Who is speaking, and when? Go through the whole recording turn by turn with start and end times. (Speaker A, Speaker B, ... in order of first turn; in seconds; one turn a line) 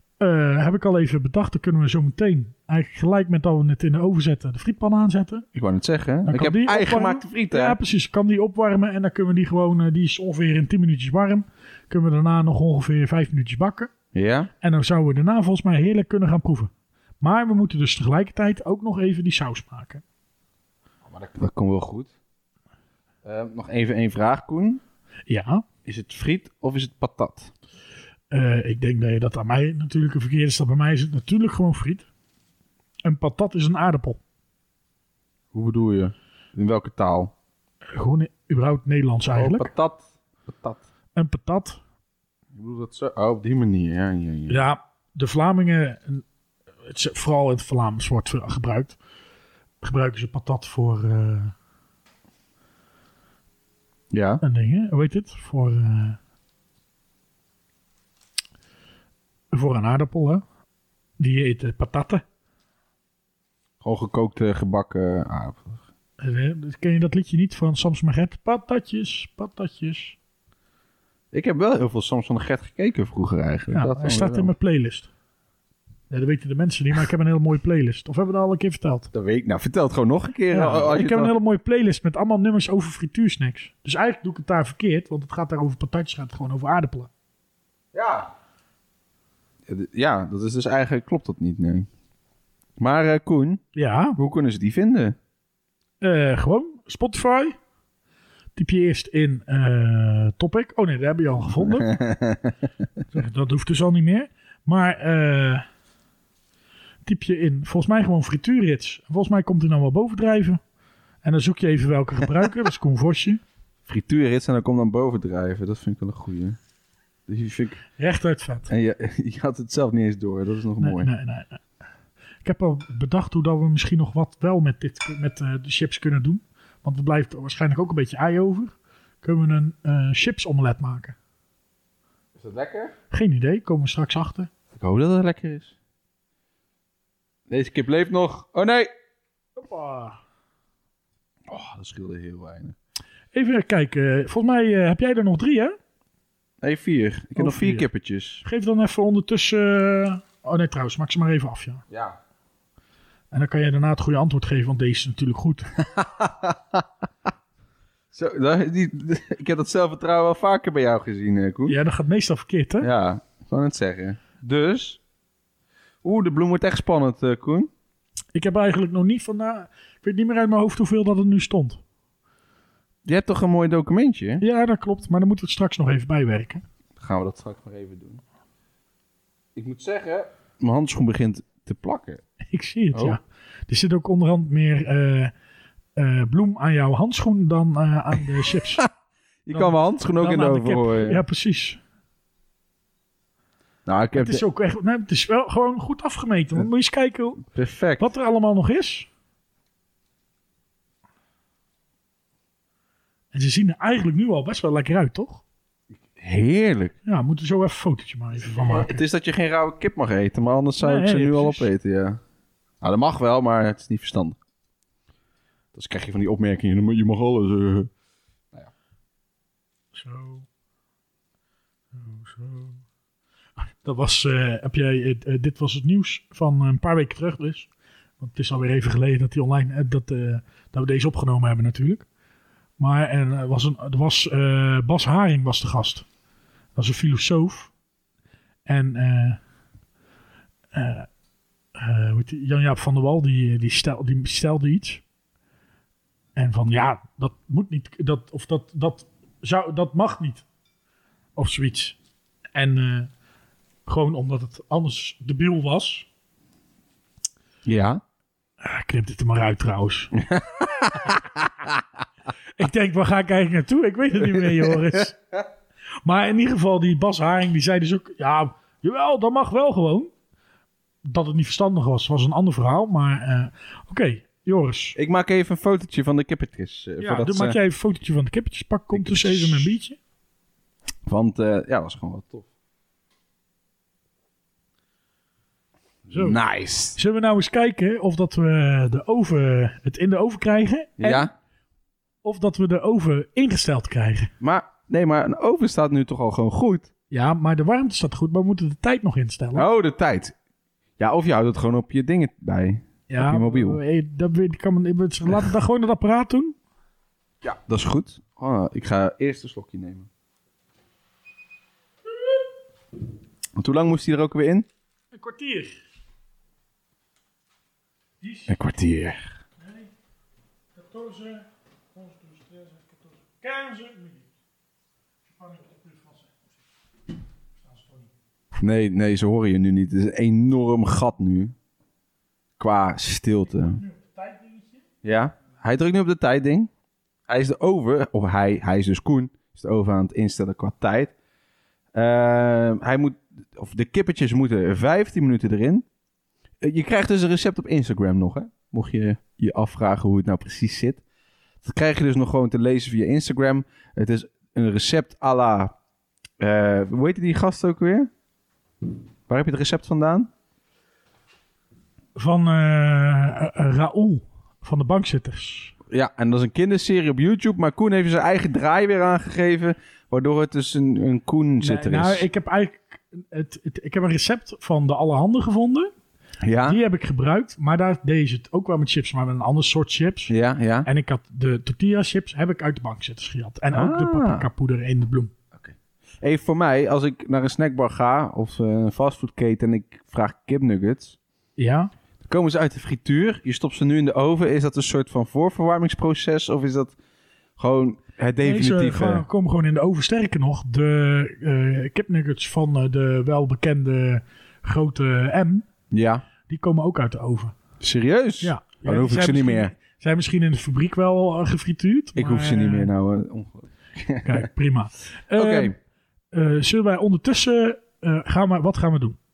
Speaker A: 0.2-5.5
Speaker B: 5.5-7.8
Speaker A: 6.3-13.9
Speaker B: 14.1-14.5
Speaker A: 14.6-20.0
Speaker B: 21.1-22.1
Speaker B: 23.2-24.8
Speaker A: 25.3-25.6
Speaker B: 25.9-27.5
Speaker A: 28.3-32.1
Speaker A: 33.0-34.2
Speaker B: 35.5-37.3
Speaker A: 37.9-39.7
Speaker B: 39.4-40.8
Speaker A: 41.1-41.8
Speaker B: 42.5-44.6
Speaker A: 44.5-46.2
Speaker A: 46.9-49.0
Speaker A: 49.8-51.5
Speaker B: 54.1-54.4
Speaker A: 54.4-56.2
Speaker A: 59.5-60.4
Speaker A: 61.2-62.2
Speaker B: 63.8-65.8
Speaker A: 66.2-70.2
Speaker B: 71.3-74.5
Speaker A: 73.7-75.1
Speaker A: 76.1-79.1
Speaker B: 79.1-81.3
Speaker A: 80.5-87.1
Speaker B: 87.9-88.3
Speaker B: 89.7-91.9
Speaker B: 92.8-93.6
Speaker A: 93.7-94.2
Speaker B: 94.2-95.2
Speaker A: 96.0-97.6
Speaker A: 98.6-102.0
Speaker B: 101.6-102.5
Speaker A: 103.1-105.6
Speaker A: 107.0-110.6
Speaker A: 111.2-113.4
Speaker B: 113.9-116.6
Speaker B: 117.3-117.8
Speaker A: 118.0-118.7
Speaker B: 118.7-121.1
Speaker A: 120.8-121.6
Speaker A: 122.4-131.2
Speaker B: 132.3-132.9
Speaker A: 133.1-134.5
Speaker B: 134.7-135.7
Speaker B: 137.5-138.9
Speaker A: 139.6-140.2
Speaker B: 141.5-142.8
Speaker A: 143.3-145.8
Speaker B: 146.6-148.4
Speaker A: 147.4-147.9
Speaker A: 148.4-151.8
Speaker B: 151.9-152.2
Speaker A: 153.3-155.7
Speaker B: 155.9-156.8
Speaker B: 158.1-161.8
Speaker A: 161.7-162.9
Speaker B: 162.8-165.0
Speaker B: 166.0-167.7
Speaker A: 168.3-171.8
Speaker B: 173.1-174.4
Speaker A: 174.4-176.6
Speaker B: 177.0-178.2
Speaker B: 179.6-182.2
Speaker A: 182.5-185.3
Speaker B: 182.9-183.2
Speaker A: 185.9-188.8
Speaker B: 188.5-188.9
Speaker B: 189.4-191.2
Speaker A: 189.5-191.8
Speaker B: 193.9-194.4
Speaker A: 194.2-197.4
Speaker B: 197.5-198.1
Speaker A: 198.0-199.1
Speaker A: 203.3-205.4
Speaker B: 206.1-206.9
Speaker A: 207.1-209.0
Speaker B: 208.5-212.2
Speaker A: 210.8-211.7
Speaker B: 212.8-214.4
Speaker B: 215.7-217.9
Speaker A: 219.9-220.4
Speaker A: 221.9-222.8
Speaker A: 223.6-227.7
Speaker A: 228.2-232.1
Speaker A: 232.8-236.1
Speaker A: 236.7-237.7
Speaker A: 238.7-239.4
Speaker A: 240.7-241.1
Speaker A: 241.8-245.0
Speaker A: 246.4-250.4
Speaker A: 251.4-252.0
Speaker A: 252.6-253.1
Speaker A: 253.9-256.1
Speaker B: 257.6-258.0
Speaker A: 258.6-260.2
Speaker B: 260.2-261.8
Speaker A: 262.6-265.2
Speaker B: 264.2-265.1
Speaker A: 266.0-270.1
Speaker A: 271.0-275.0
Speaker B: 274.9-277.6
Speaker A: 277.0-280.0
Speaker B: 278.9-279.7
Speaker B: 281.1-282.5
Speaker B: 286.1-287.0
Speaker A: 286.1-286.4
Speaker A: 286.9-291.3
Speaker B: 291.0-291.3
Speaker A: 292.2-294.3
Speaker B: 294.4-296.9
Speaker A: 297.1-299.7
Speaker B: 299.6-300.4
Speaker B: 301.0-303.8
Speaker A: 303.1-306.6
Speaker B: 307.4-310.1
Speaker B: 313.6-314.7
Speaker A: 315.1-315.8
Speaker A: 318.2-318.6
Speaker B: 318.5-319.2
Speaker A: 319.6-319.9
Speaker A: 320.7-324.3
Speaker A: 325.2-326.4
Speaker A: 327.6-328.1
Speaker B: 328.6-331.6
Speaker B: 332.6-333.8
Speaker A: 333.6-334.8
Speaker B: 335.0-336.7
Speaker B: 337.3-341.1
Speaker B: 341.9-345.9
Speaker B: 346.6-351.0
Speaker B: 351.6-355.7
Speaker B: 356.4-358.1
Speaker B: 359.3-360.3
Speaker A: 362.2-365.7
Speaker B: 365.9-372.3
Speaker A: 371.6-375.9
Speaker B: 376.4-376.8
Speaker A: 376.6-380.3
Speaker B: 380.3-380.9
Speaker A: 380.9-385.3
Speaker B: 383.7-384.5
Speaker B: 385.6-391.2
Speaker A: 391.6-391.9
Speaker B: 392.2-396.9
Speaker B: 397.6-399.3
Speaker A: 398.4-405.7
Speaker B: 405.9-406.3
Speaker A: 406.5-407.6
Speaker B: 407.8-409.7
Speaker A: 408.4-412.9
Speaker B: 412.2-414.4
Speaker A: 414.2-415.7
Speaker B: 415.3-415.8
Speaker A: 416.3-419.2